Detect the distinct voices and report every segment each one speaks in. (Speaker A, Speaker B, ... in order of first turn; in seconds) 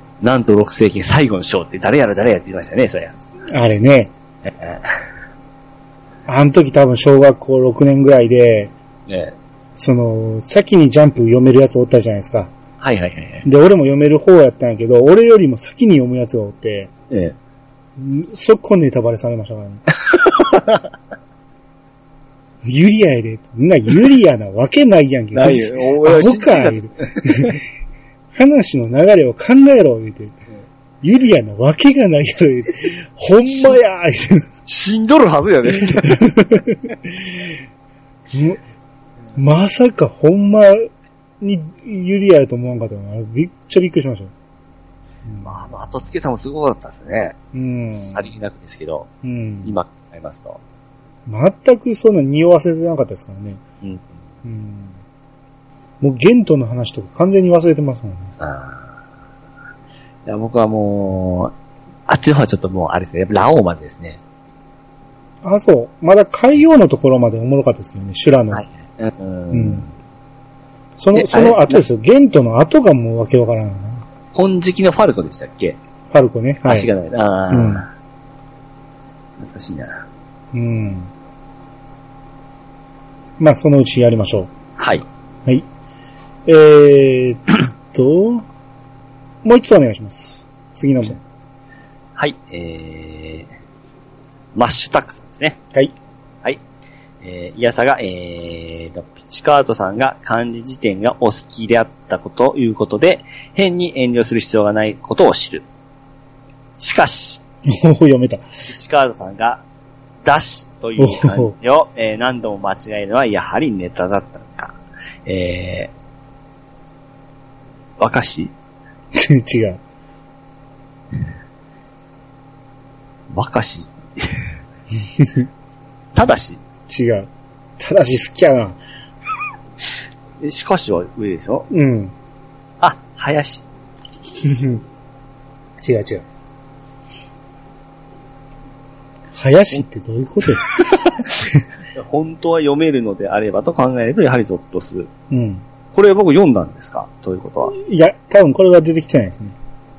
Speaker A: 0.2-3.1, 4.5-4.9, 9.1-9.3, 12.8-13.4, 17.1-17.4, 20.0-20.9, 25.3-27.5, 34.7-36.4, 45.4-47.4, 47.9-49.1, 49.6-50.6, 53.8-54.1, 58.4-59.0, 60.2-61.5, 62.1-64.2, 68.5-69.9, 71.1-71.8, 74.3-75.8, 76.6-77.9, 79.4-80.0, 84.8-85.0, 92.2-93.5, 94.5-95.6, 97.2-105.6, 106.8-107.4, 108.7-109.6, 110.2-115.9, 118.0-118.5, 123.3-124.5, 126.1-126.6, 130.4-131.7, 132.8-133.6, 140.5-145.1, 145.9-147.7
Speaker B: 3.5-4.1, 6.3-8.7, 9.8-12.5, 13.4-16.9, 18.0-19.8, 22.6-27.6, 28.3-30.4, 31.0-34.5, 35.8-37.5, 38.3-38.6, 39.3-40.9, 41.4-44.3, 45.2-45.5, 47.5-48.2, 49.2-49.8, 51.3-53.6, 54.4-55.0, 56.0-58.3, 65.4-68.6, 69.5-69.8, 71.0-74.0, 76.1-76.9, 77.5-77.8, 80.5-81.1, 83.4-84.5, 86.5-88.4, 89.4-91.2, 107.7-108.4, 111.0-111.5, 119.1-119.8, 125.0-125.5, 126.9-128.8, 131.7-132.1, 134.4-134.8, 135.8-136.2, 139.3-141.6, 145.3-145.6, 147.7-149.5